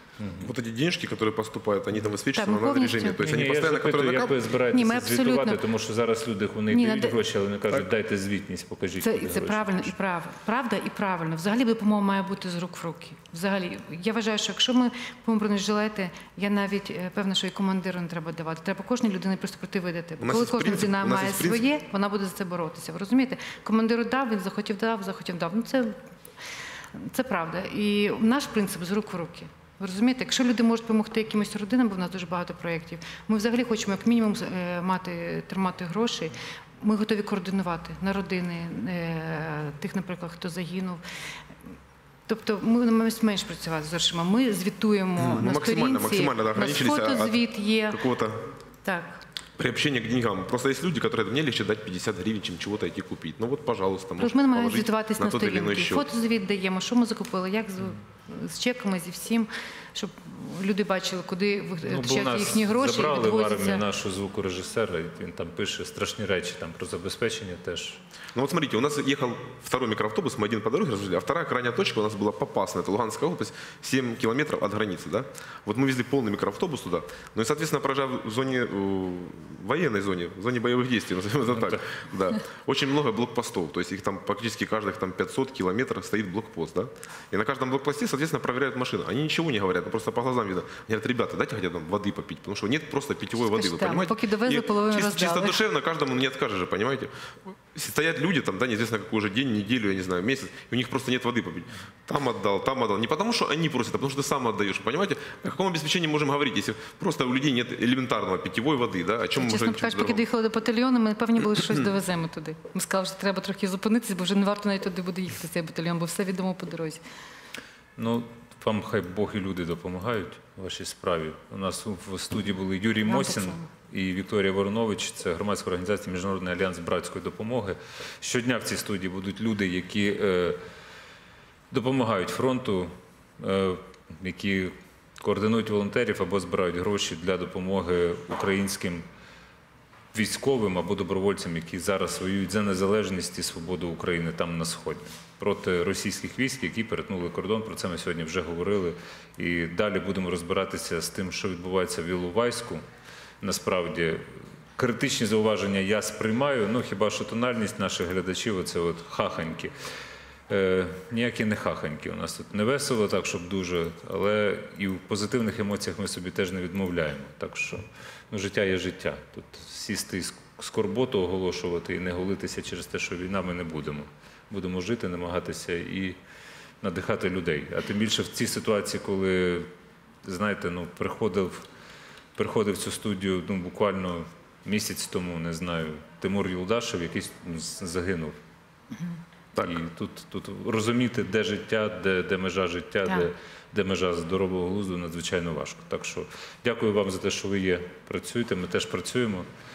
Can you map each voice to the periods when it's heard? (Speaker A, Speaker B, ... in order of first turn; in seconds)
Speaker A: 0.2-0.5, 3.2-9.9, 61.8-68.0, 81.5-81.8, 118.0-130.6, 131.7-139.0, 140.1-152.8, 153.4-154.2, 154.8-159.7, 160.5-176.2, 176.8-179.7, 180.2-181.6, 182.3-188.3, 189.6-199.4
Speaker B: 0.4-4.4, 20.2-21.6, 45.2-48.4, 49.6-56.1, 68.3-97.1, 97.7-110.2
Speaker C: 2.3-3.2, 4.7-5.6, 6.7-7.2, 9.0-25.9, 26.9-41.0, 42.3-48.0, 48.8-49.2, 54.2-63.8, 93.4-95.6, 109.4-117.0, 123.0-123.7